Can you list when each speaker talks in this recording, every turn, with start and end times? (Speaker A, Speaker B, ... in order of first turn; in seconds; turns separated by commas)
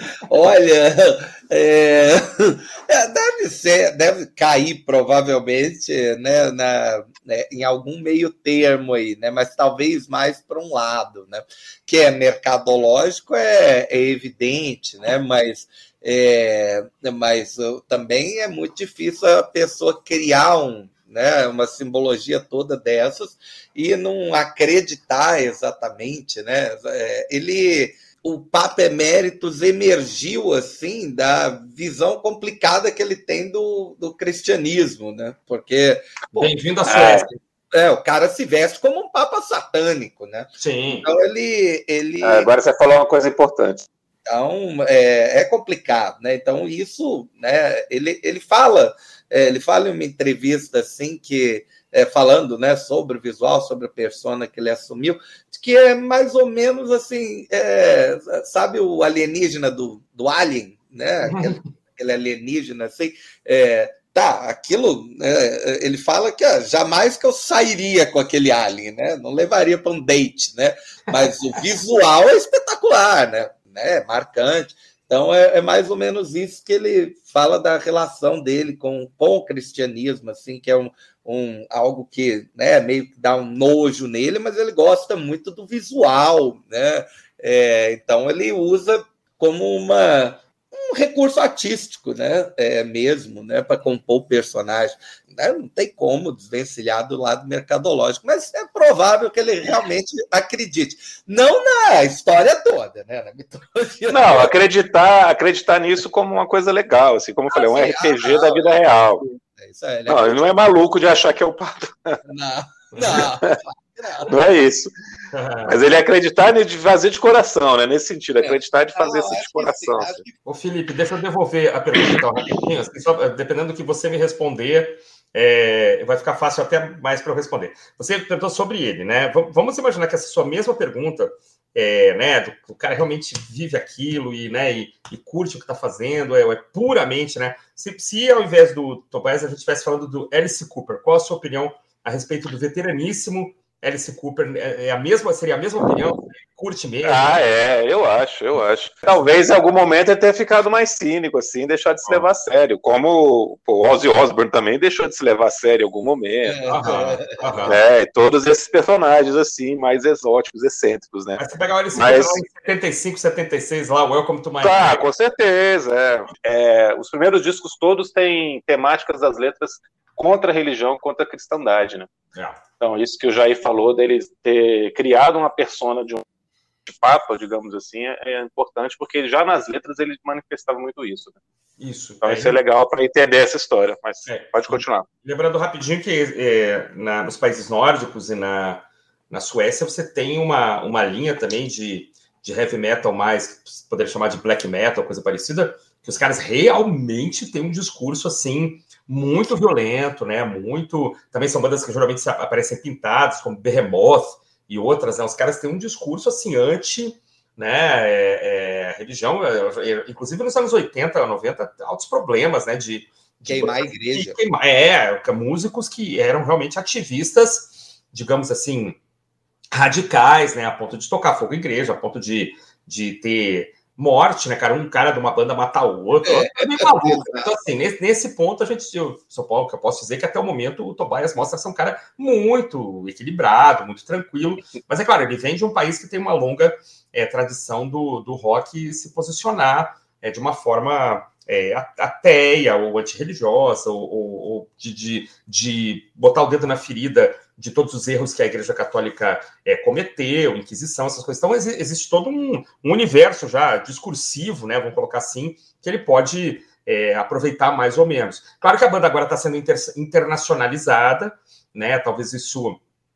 Speaker A: 0.2-36.5, Speaker B: 36.4-37.4, Speaker C: 36.9-37.3, Speaker A: 37.7-42.5, Speaker B: 40.6-41.1, Speaker C: 42.2-43.9, Speaker A: 44.3-104.5, Speaker B: 61.2-61.7, Speaker C: 104.1-109.2, Speaker A: 107.5-110.5, Speaker C: 110.1-112.2, Speaker A: 112.2-114.3, Speaker B: 112.9-113.3, Speaker C: 113.1-113.5, Speaker C: 114.2-114.9, Speaker B: 115.3-115.8, Speaker C: 115.6-120.2, Speaker A: 118.4-120.4, Speaker B: 120.5-147.4, Speaker C: 147.0-156.8, Speaker A: 156.5-157.4, Speaker B: 156.7-157.8, Speaker C: 157.6-161.4, Speaker B: 161.4-165.0, Speaker C: 161.9-162.4, Speaker C: 164.6-172.1, Speaker B: 172.3-172.6, Speaker C: 172.8-176.2, Speaker C: 176.8-181.4, Speaker B: 181.8-182.6, Speaker C: 182.2-185.1, Speaker B: 184.3-219.0, Speaker A: 213.4-214.4, Speaker B: 219.7-262.8, Speaker A: 226.2-227.5